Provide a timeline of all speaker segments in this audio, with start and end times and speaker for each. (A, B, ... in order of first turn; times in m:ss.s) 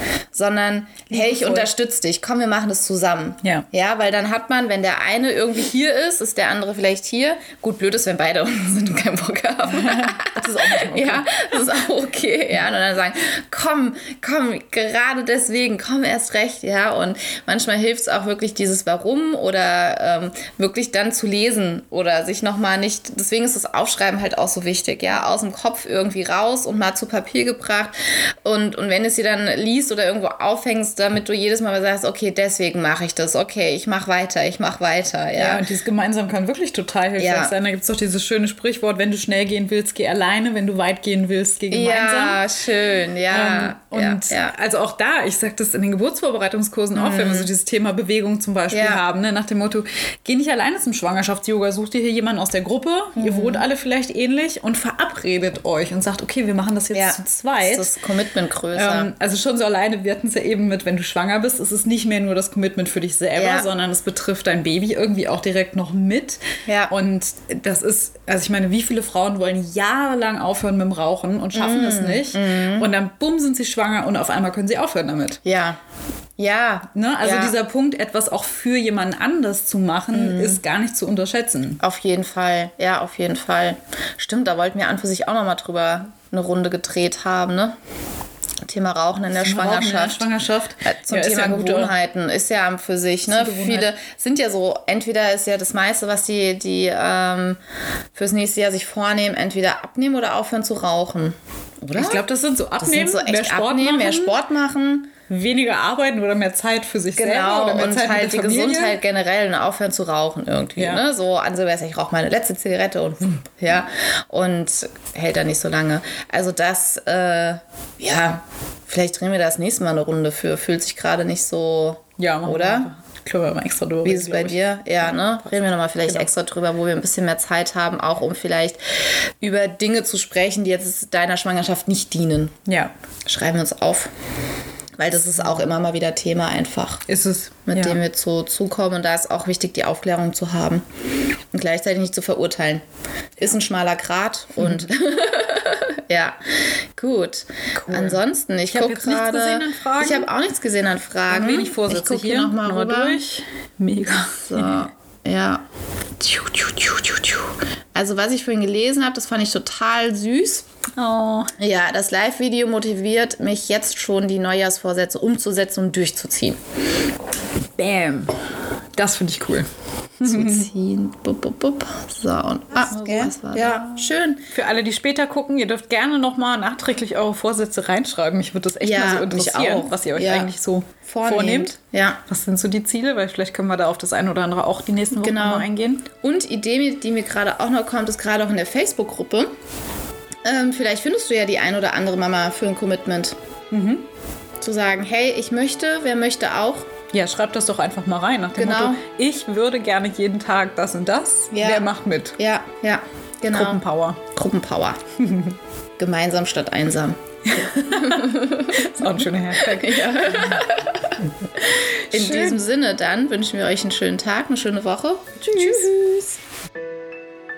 0:00.3-0:35.6 A
0:01.1-0:01.7 B
0:09.7-0:11.6 B
0:35.3-0:42.4 B
0:37.2-0:37.5 A
0:41.7-0:44.5 A
0:43.3-0:57.9 B
0:46.9-0:47.5 A
0:48.7-0:49.0 A
0:53.2-0:53.6 A
0:56.9-0:59.1 A
0:58.7-1:15.4 B
1:03.4-1:03.6 A
1:06.7-1:06.9 A
1:11.5-1:12.9 A
1:15.4-1:15.8 A
1:16.4-1:17.5 A
1:16.9-1:21.8 B
1:20.1-1:20.6 A
1:21.8-1:27.8 A
1:28.6-1:30.2 A
1:29.3-1:31.9 B
1:30.8-1:37.6 A
1:33.3-1:33.9 B
1:38.1-1:42.2 A
1:41.9-1:44.3 B
1:42.8-1:45.1 A
1:45.3-1:49.0 B
1:47.2-2:02.9 A
1:50.8-1:51.0 B
2:02.2-2:06.3 B
2:04.0-2:12.6 A
2:12.6-2:12.9 B
2:13.2-2:14.1 A
2:15.0-2:17.0 A
2:17.1-2:18.0 B
2:17.7-2:20.8 A
2:21.5-2:22.8 A
2:23.4-2:33.2 A
2:24.6-2:24.8 B
2:27.7-2:30.3 B
2:31.3-2:34.8 B
2:34.4-2:35.6 A
2:36.2-2:40.7 A
2:41.0-2:41.5 B
2:41.6-2:46.6 A
2:47.8-2:48.4 B
2:48.9-2:49.7 B
2:50.2-2:50.7 B
2:50.2-2:54.4 A
2:52.8-3:01.7 B
2:58.8-3:00.5 A
3:01.1-3:02.2 A
3:02.3-3:06.0 B
3:05.2-3:09.5 A
3:10.4-3:13.3 A
3:13.7-3:14.0 B
3:14.6-3:16.9 A
3:17.1-3:22.4 B
3:18.6-3:19.0 A
3:21.5-3:25.0 A
3:23.5-3:24.2 B
3:25.2-3:25.6 B
3:26.0-3:31.2 A
3:27.5-3:30.7 B
3:31.6-3:32.6 B
3:32.1-3:36.3 A
3:35.4-3:36.0 B